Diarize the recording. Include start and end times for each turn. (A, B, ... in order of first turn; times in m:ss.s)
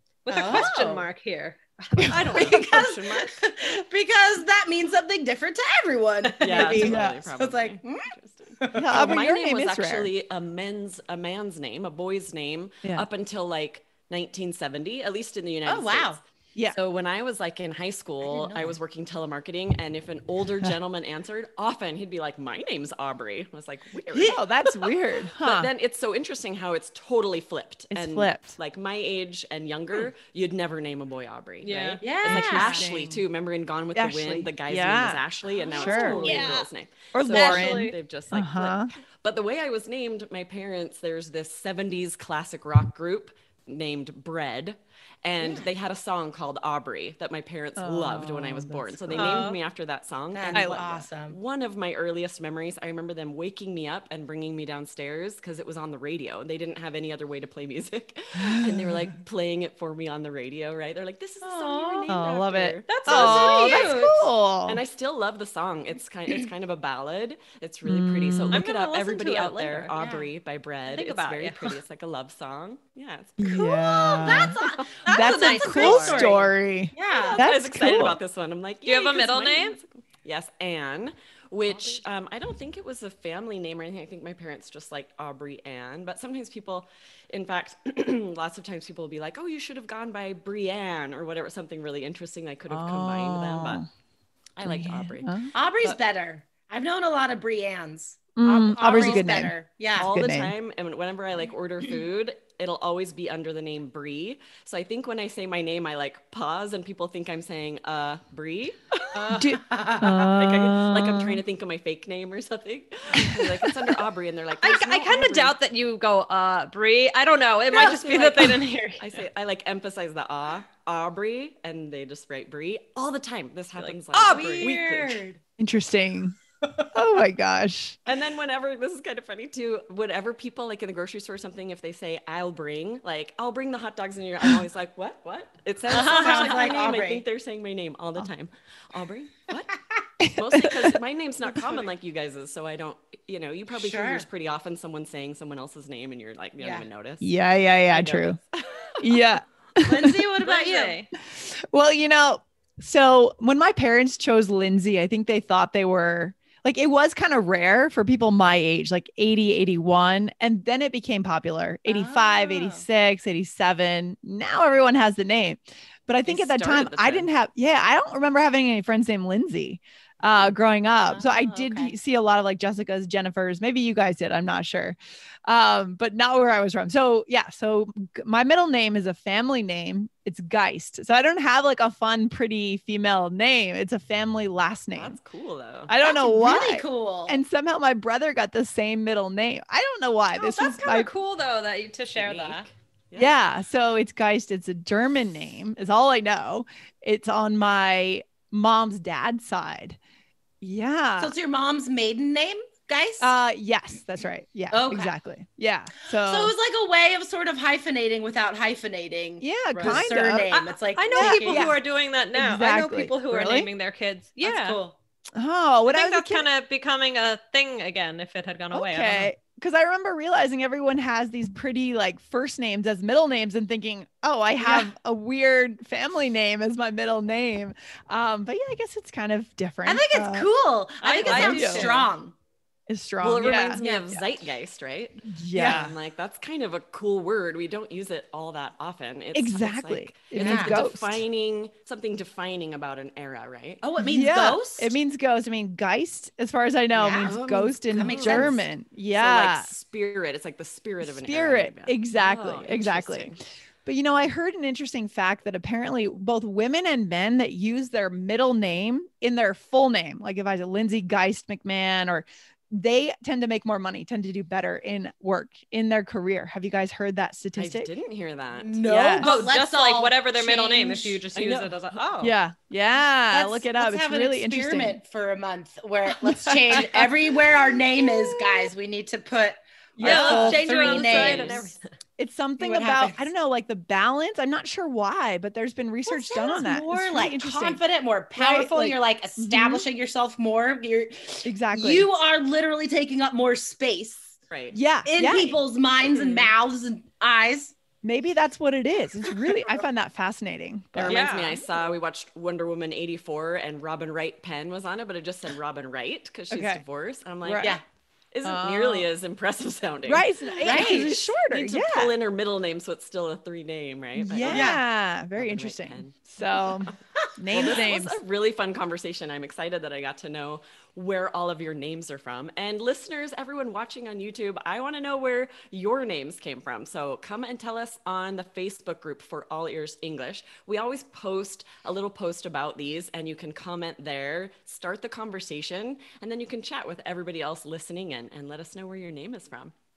0:00.2-0:02.1 A
0:00.3-0:01.1 B
0:02.0-0:02.3 C
0:02.0-0:03.4 D
0:02.3-0:09.0 B
0:06.3-0:16.2 D
0:06.6-0:07.2 C
0:08.7-0:10.1 C
0:15.6-0:16.2 B
0:16.7-0:24.4 D
0:18.3-0:18.7 B
0:24.1-0:24.4 B
0:24.2-0:25.7 C
0:25.4-1:04.0 D
0:27.9-0:28.6 C
0:31.6-0:32.0 A
0:32.0-0:32.8 B
0:32.2-0:33.2 C
0:33.9-0:36.5 C
0:35.8-0:36.7 A
0:36.1-0:36.5 B
0:37.1-0:38.9 C
0:37.3-0:38.0 A
0:47.8-0:49.5 C
0:49.1-0:49.6 A
0:50.3-0:51.4 B
0:50.5-0:50.9 C
0:58.5-0:58.9 C
1:01.4-1:02.1 B
1:02.1-1:04.8 C
1:02.8-1:04.2 A
1:04.6-1:13.6 D
1:07.8-1:08.6 C
1:08.5-1:09.9 A
1:09.9-1:10.3 B
1:10.9-1:11.8 A
1:13.4-1:18.2 C
1:13.4-1:17.4 B
1:14.2-1:14.8 D
1:15.0-1:16.3 A
1:17.1-1:33.8 D
1:18.8-1:19.8 A
1:32.7-1:33.9 C
1:34.6-1:36.0 D
1:34.6-1:35.5 C
1:35.5-1:40.1 B
1:38.4-1:40.5 C
1:38.9-1:39.4 D
1:40.0-1:49.2 D
1:49.1-1:50.1 B
1:49.3-1:51.4 C
1:50.3-1:55.5 D
1:54.6-1:59.1 A
1:57.7-2:05.2 D
2:03.8-2:04.7 A
2:04.3-2:05.4 B
2:05.6-2:06.4 C
2:06.6-2:06.9 B
2:06.9-2:08.0 C
2:08.0-2:19.7 D
2:15.9-2:16.8 A
2:15.9-2:17.2 B
2:20.2-2:21.0 C
2:20.3-2:27.3 D
2:23.7-2:24.3 B
2:26.6-2:26.9 B
2:27.2-2:28.4 C
2:27.9-2:29.2 D
2:29.0-2:30.2 C
2:29.8-2:31.0 B
2:30.4-2:31.1 A
2:31.2-3:05.2 C
2:41.9-2:42.8 B
2:46.2-2:47.3 D
2:51.1-2:52.0 B
3:04.9-3:05.9 D
3:05.9-3:11.1 C
3:06.0-3:07.4 B
3:10.3-3:12.7 A
3:12.2-3:13.4 D
3:13.2-3:20.0 C
3:20.6-3:21.3 C
3:21.2-3:23.3 B
3:23.2-3:26.5 C
3:24.7-3:25.1 B
3:26.1-3:31.7 B
3:29.4-3:30.5 C
3:29.7-3:34.8 A
3:31.1-3:31.8 C
3:32.3-3:33.7 C
3:34.4-3:35.0 B
3:35.3-3:36.4 C
3:35.8-3:39.3 A
3:38.7-3:50.5 C
3:49.8-3:52.3 B
3:51.0-3:52.0 A
3:51.2-3:51.9 C
3:52.9-3:54.2 C
3:53.2-4:03.8 D
3:55.3-3:56.0 C
3:59.3-4:01.2 C
4:00.3-4:00.8 B
4:03.8-4:04.9 B
4:04.0-4:09.7 C
4:06.9-4:07.4 B
4:07.2-4:08.6 D
4:08.0-4:08.6 B
4:09.1-4:13.4 D
4:11.0-4:27.9 C
4:27.6-4:28.8 D
4:28.5-4:31.2 B
4:28.9-4:29.3 C
4:29.2-4:32.3 A
4:31.3-4:32.0 D
4:32.2-4:35.0 C
4:33.3-4:41.7 B
4:36.3-4:38.6 C
4:40.0-4:41.5 C
4:40.0-4:41.8 A
4:42.2-4:47.8 C
4:42.6-4:43.3 B
4:46.0-4:54.4 B
4:48.4-4:49.8 C
4:51.4-4:52.1 C
4:54.5-4:54.8 D
4:54.7-4:55.6 C
4:55.0-4:57.8 B
4:56.1-4:56.5 D
4:58.0-5:01.5 C
5:00.9-5:07.8 D
5:01.1-5:01.6 A
5:06.5-5:06.8 C
5:07.4-5:07.8 C
5:08.3-5:14.8 D
5:08.4-5:09.1 C
5:10.0-5:12.1 C
5:10.6-5:11.2 B
5:14.1-5:18.2 C
5:14.5-5:14.8 B
5:15.4-5:16.9 D
5:17.5-5:39.7 D